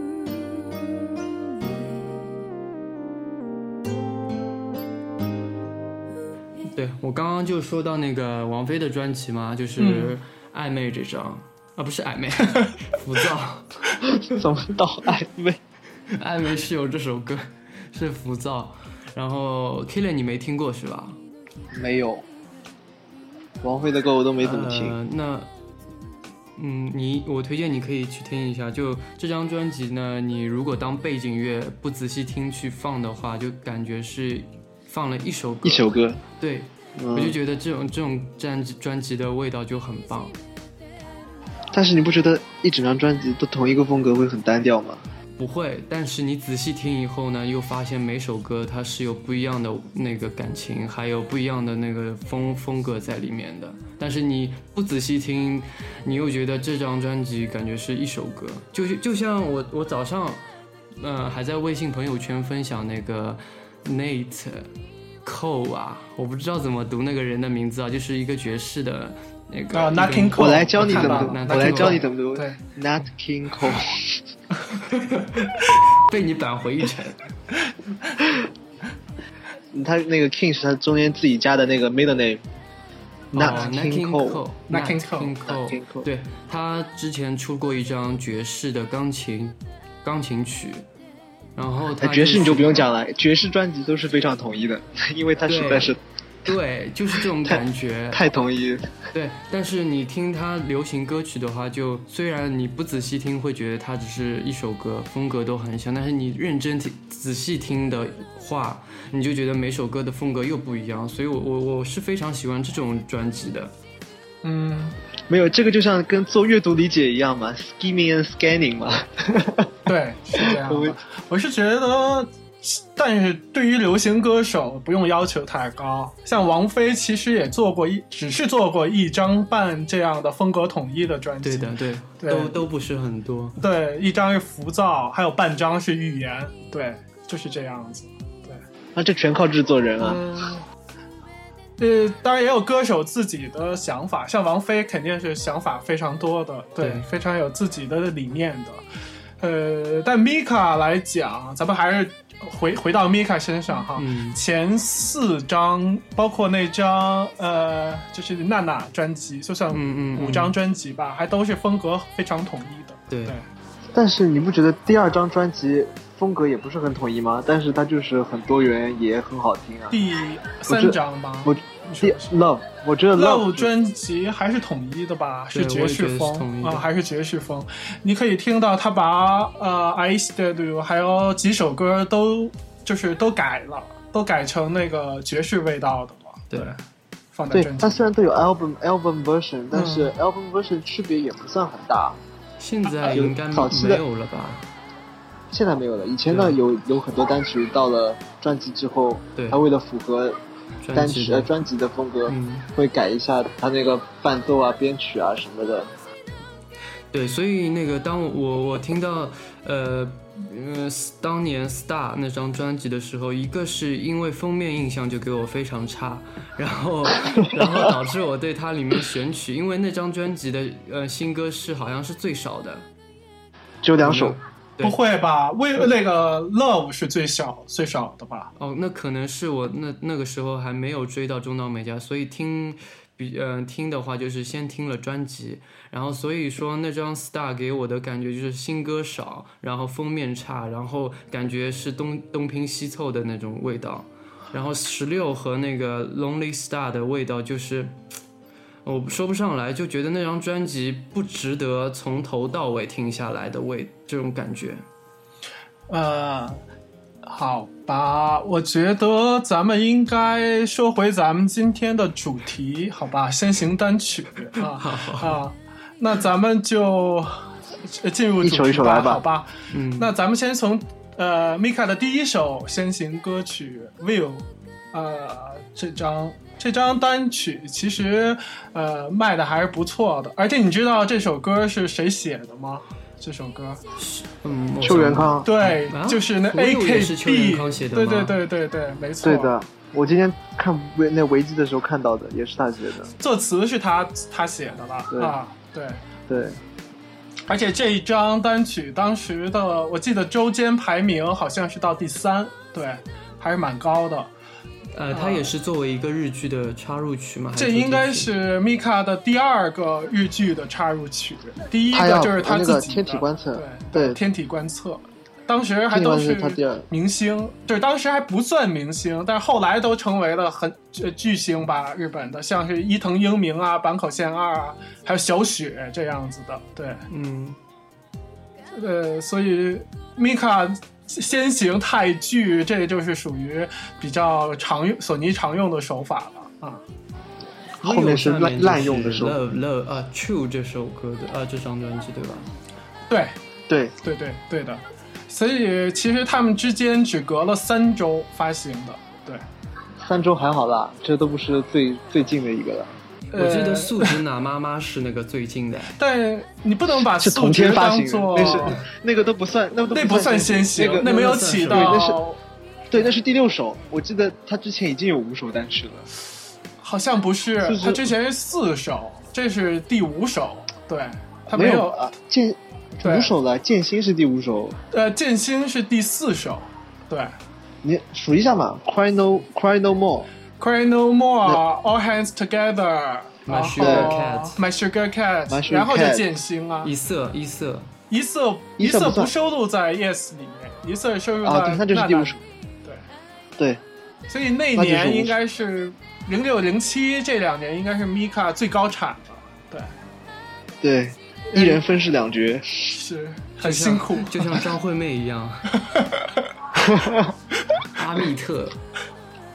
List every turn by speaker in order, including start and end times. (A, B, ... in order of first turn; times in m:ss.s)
0:06.7-0:13.8 A
0:09.8-0:10.2 B
0:14.1-0:15.6 C
0:16.1-0:21.2 A
0:21.7-0:22.2 C
0:23.6-0:25.0 C
0:24.4-0:25.5 A
0:26.6-0:40.4 A
0:35.6-0:36.2 C
0:37.0-0:37.4 C
0:41.7-0:45.0 C
0:45.4-1:00.4 A
1:01.0-1:04.7 A
1:05.2-1:12.0 A
1:09.7-1:12.6 B
1:10.4-1:14.2 C
1:14.8-1:17.2 A
1:19.7-1:22.4 C
1:23.3-1:30.8 A
1:23.3-1:24.4 C
1:23.4-1:23.7 B
1:24.7-1:25.3 B
1:25.5-1:26.1 C
1:31.6-1:32.9 A
1:32.0-1:36.0 C
1:35.4-1:38.2 A
1:37.4-1:39.0 C
1:39.1-1:53.7 A
1:54.4-1:54.9 B
1:55.3-1:59.8 C
1:59.8-2:12.6 B
2:00.4-2:01.0 C
2:11.4-2:13.6 A
2:13.6-2:18.6 B
2:18.9-2:20.2 C
2:20.0-2:20.6 B
2:21.8-2:28.8 B
2:26.8-2:27.0 A
2:29.4-2:43.4 B
2:34.0-2:34.4 A
2:39.7-2:40.5 A
2:43.1-2:43.4 A
2:43.9-2:50.0 C
2:49.9-2:52.3 B
2:50.7-2:53.7 C
2:53.1-3:06.8 B
2:55.5-2:56.8 A
3:07.3-3:08.0 B
3:07.5-3:12.2 C
3:09.7-3:10.1 B
3:12.6-3:14.7 A
3:13.0-3:14.0 C
3:15.5-3:20.4 C
3:16.3-3:16.6 A
3:20.8-3:21.5 A
3:20.9-3:25.9 C
3:22.3-3:22.7 A
3:27.1-3:42.9 A
3:37.6-3:37.9 C
3:43.8-3:44.4 C
3:44.0-3:45.0 A
3:44.8-3:48.5 B
3:48.6-4:08.0 A
4:08.8-4:14.8 A
4:15.9-4:16.6 B
4:17.2-4:43.8 B
4:24.6-4:25.4 A
4:28.4-4:29.2 C
4:29.7-4:30.1 A
4:44.0-4:48.4 A
4:44.8-4:45.5 C
4:45.4-4:49.5 B
4:49.2-4:53.1 C
4:53.2-4:56.0 B
4:55.1-4:55.4 C
4:56.3-4:56.6 C
4:57.5-5:04.3 B
5:04.9-5:08.3 A
5:05.1-5:05.5 B
5:07.6-5:27.0 B
5:11.9-5:14.2 C
5:15.9-5:16.9 C
5:27.1-5:27.6 A
5:28.7-5:36.8 B
5:37.8-5:39.4 C
5:37.8-5:42.5 A
5:43.1-5:43.3 B
5:43.7-5:43.9 C
5:44.0-5:49.4 B
5:50.0-5:53.0 C
5:53.3-5:54.2 B
5:53.3-5:56.0 A
5:56.0-5:58.8 B
5:57.0-6:02.2 C
5:59.9-6:02.4 B
6:01.0-6:02.0 A
6:02.9-6:06.1 C
6:06.8-6:12.0 B
6:07.6-6:08.1 C
6:11.5-6:14.8 C
6:13.0-6:13.3 B
6:14.9-6:17.3 B
6:17.8-6:20.3 C
6:20.6-6:26.9 B
6:23.4-6:24.6 A
6:23.8-6:24.1 C
6:25.5-6:26.3 C
6:26.8-6:27.9 A
6:28.1-6:33.0 B
6:28.8-6:29.3 C
6:31.4-6:32.4 C
6:34.3-6:39.9 B
6:34.7-6:35.4 C
6:40.8-6:43.0 C
6:41.5-6:41.8 B
6:42.9-6:44.6 B
6:43.6-6:45.7 A
6:45.7-6:46.4 B
6:46.8-6:47.3 C
6:47.9-6:48.8 A